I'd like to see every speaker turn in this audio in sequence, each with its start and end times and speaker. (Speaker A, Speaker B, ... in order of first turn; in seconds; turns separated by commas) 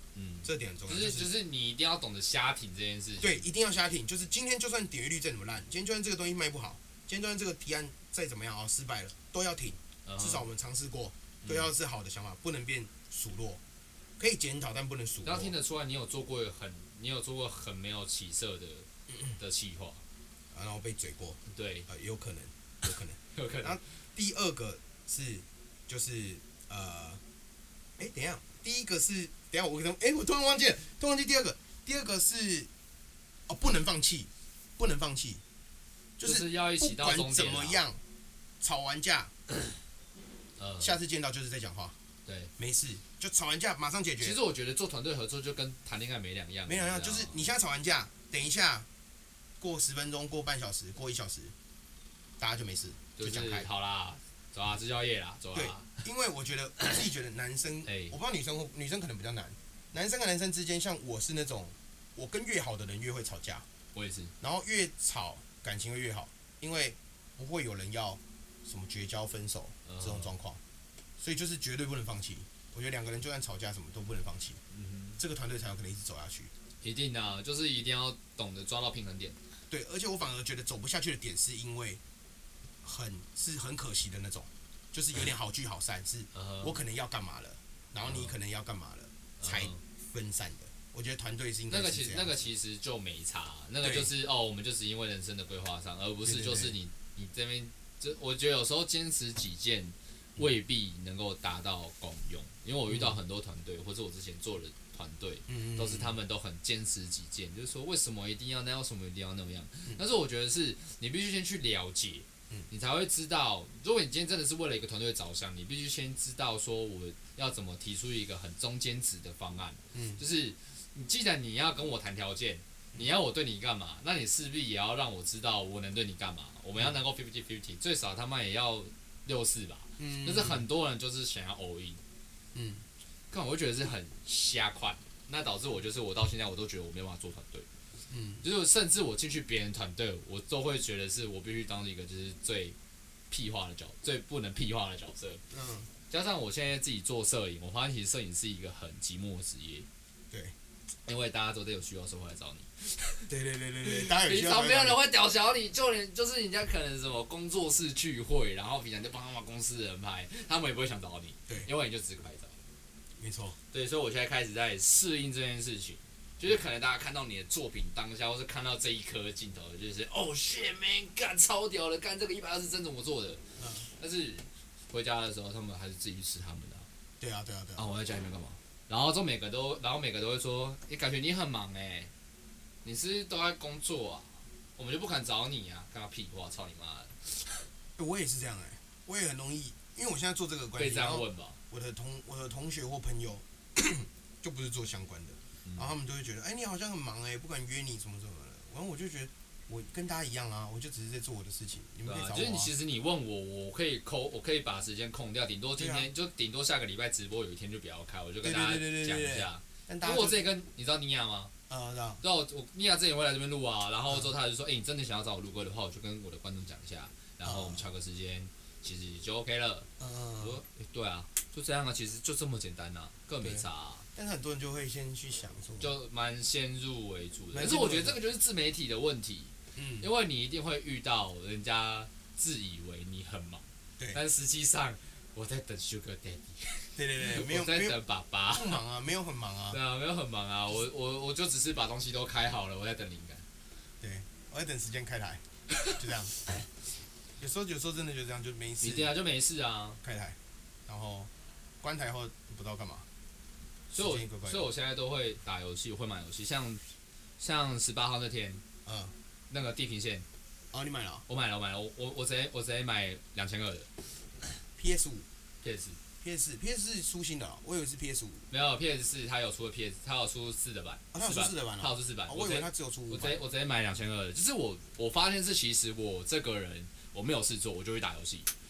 Speaker A: 0.1-3.4, Speaker B: 0.4-1.3, Speaker B: 3.2-13.6, Speaker A: 10.1-10.4, Speaker A: 11.4-11.7, Speaker B: 14.2-15.5, Speaker A: 15.2-20.0, Speaker B: 20.5-27.2, Speaker A: 21.5-21.9, Speaker A: 23.3-23.8, Speaker B: 28.0-32.7, Speaker B: 33.5-35.4, Speaker B: 36.2-38.0, Speaker A: 36.2-37.8, Speaker B: 38.6-39.3, Speaker A: 40.6-40.9, Speaker B: 40.8-42.0, Speaker A: 42.2-42.5, Speaker B: 42.6-44.4, Speaker A: 44.2-47.5, Speaker B: 46.6-48.9, Speaker B: 49.6-51.5, Speaker B: 52.4-53.7, Speaker A: 53.2-56.0, Speaker B: 55.5-63.6, Speaker A: 57.9-58.1, Speaker A: 63.9-64.3, Speaker B: 64.4-70.6, Speaker A: 69.8-70.3, Speaker B: 71.2-74.6, Speaker A: 74.7-75.2, Speaker B: 75.2-76.5, Speaker A: 76.8-79.4, Speaker B: 79.7-82.0, Speaker B: 82.8-92.4, Speaker A: 86.3-86.8, Speaker A: 88.0-88.3, Speaker A: 89.4-89.8, Speaker A: 91.7-132.0, Speaker B: 93.8-94.1, Speaker B: 96.2-96.7, Speaker B: 102.9-103.2, Speaker B: 105.5-106.2, Speaker B: 119.9-120.2, Speaker B: 130.0-130.7, Speaker B: 132.5-132.8, Speaker A: 133.3-137.7, Speaker B: 138.1-138.4, Speaker A: 138.4-142.8, Speaker A: 143.3-145.4, Speaker B: 145.5-145.9, Speaker A: 146.1-149.9, Speaker A: 151.1-153.3, Speaker B: 153.3-155.0, Speaker A: 153.9-162.6, Speaker B: 163.2-163.6, Speaker A: 163.7-173.4, Speaker B: 173.6-173.9, Speaker A: 174.0-176.9, Speaker B: 177.2-177.8, Speaker A: 177.8-182.1, Speaker A: 182.8-187.5, Speaker B: 188.0-202.7, Speaker A: 190.8-191.6, Speaker A: 195.6-195.9, Speaker A: 202.0-211.5, Speaker B: 205.8-206.1, Speaker B: 208.4-210.5, Speaker B: 211.7-212.2, Speaker A: 212.2-219.9, Speaker B: 217.4-217.9, Speaker B: 220.0-220.6, Speaker A: 220.4-224.1, Speaker B: 223.4-225.9, Speaker A: 225.8-238.8, Speaker B: 227.5-228.2, Speaker B: 229.7-230.1, Speaker B: 236.9-238.0, Speaker B: 238.5-239.8, Speaker A: 239.7-243.4, Speaker B: 244.0-246.4, Speaker B: 247.4-249.1, Speaker A: 248.8-250.0, Speaker B: 250.0-253.1, Speaker A: 253.9-256.8, Speaker B: 253.9-254.7, Speaker A: 257.4-258.6, Speaker B: 258.9-259.1, Speaker A: 259.5-260.2, Speaker B: 260.7-261.2, Speaker A: 261.3-263.9, Speaker B: 264.8-265.2, Speaker A: 265.6-266.0, Speaker B: 266.2-268.4, Speaker A: 268.5-278.5, Speaker B: 271.1-273.4